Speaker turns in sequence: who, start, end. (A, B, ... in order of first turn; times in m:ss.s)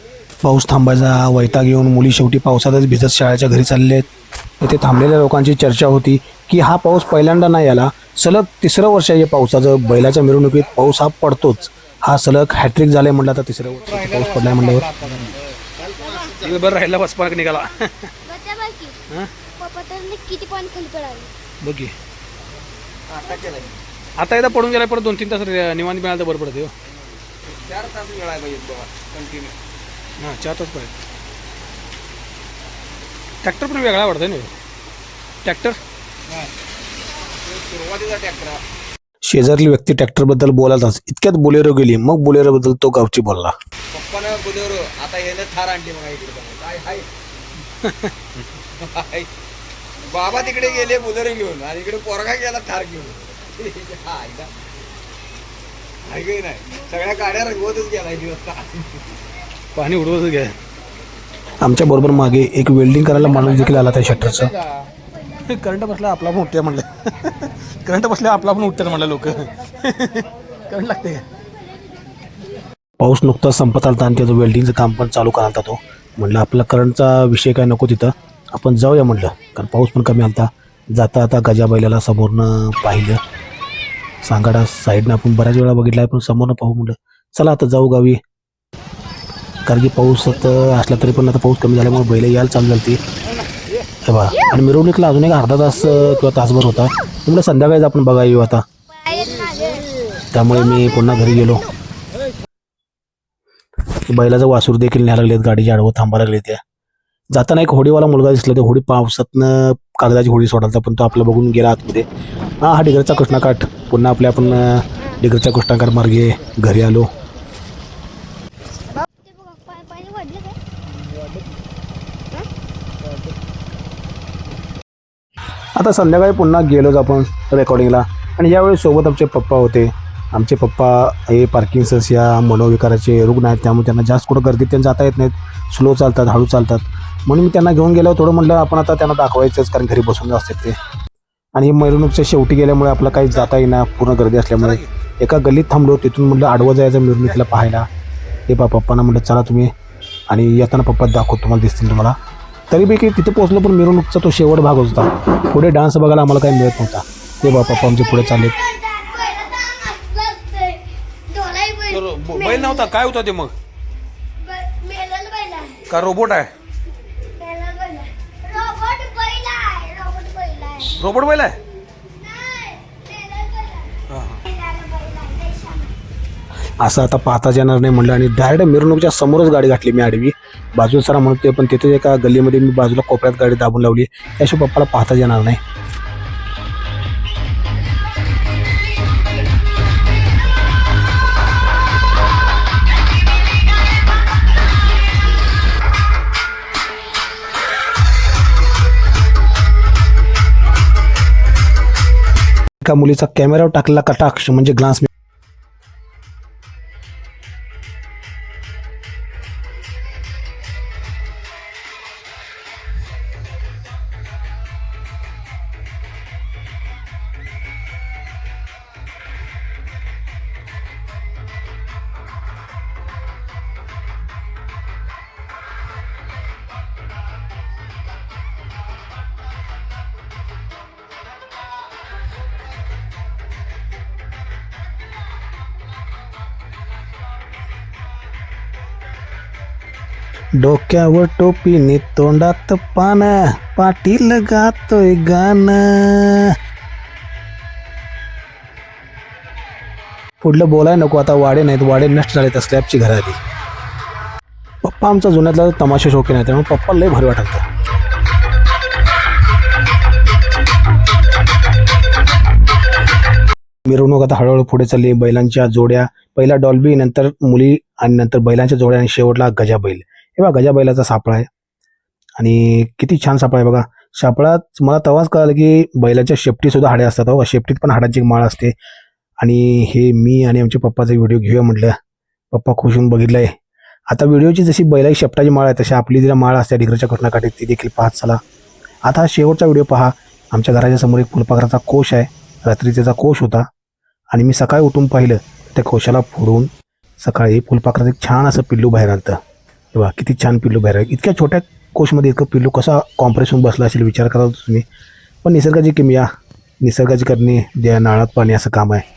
0:00.4-0:04.0 A
0:04.6-0:15.1 A
0:13.9-0:16.0 B
0:16.0-0:16.5 C
0:16.4-0:18.1 A
0:18.2-0:19.0 C
0:19.6-0:21.3 C
0:21.6-0:21.9 A
0:23.1-0:23.7 B
0:24.2-0:26.7 A
0:27.5-0:29.6 B
0:30.2-0:30.9 A
0:33.4-0:34.5 A
0:35.4-0:35.8 A
0:37.4-0:38.6 B
0:39.3-0:43.5 A
0:43.9-0:47.0 B
0:47.8-0:48.1 A
0:48.8-0:49.3 B
0:50.1-0:54.5 B
0:56.1-0:58.9 B
0:59.7-1:00.6 A
1:01.6-1:04.6 A
1:05.4-1:11.2 A
1:13.0-1:23.2 A
1:24.2-1:28.2 A
1:29.6-1:33.0 A
1:34.0-1:38.6 A
1:39.0-1:39.9 C
1:40.3-1:41.7 A
1:44.0-1:46.6 A
1:47.3-1:52.0 A
1:52.6-1:57.1 A
1:58.9-2:00.6 C
2:05.8-2:20.8 A
2:21.6-2:27.9 A
2:28.5-2:29.7 A
2:30.3-2:32.2 A
2:32.7-2:38.6 A
2:37.8-2:42.9 C
2:41.9-2:43.5 A
2:44.4-2:45.9 C
2:45.9-2:46.5 A
2:47.4-2:51.0 C
2:50.9-2:51.6 A
2:52.0-2:55.9 C
2:54.1-2:54.4 A
2:56.8-3:05.6 A
3:22.8-3:25.1 A
4:00.6-4:06.5 A
4:10.4-4:13.4 A
4:14.8-4:17.6 A
4:23.8-4:31.5 A
4:32.4-4:38.7 A
4:39.4-4:41.9 A
4:42.5-4:43.5 A
4:44.1-4:48.4 A
4:49.0-4:53.6 A
4:54.3-4:59.4 A
4:59.9-5:04.8 A
5:05.4-5:06.3 A
5:06.8-5:09.0 A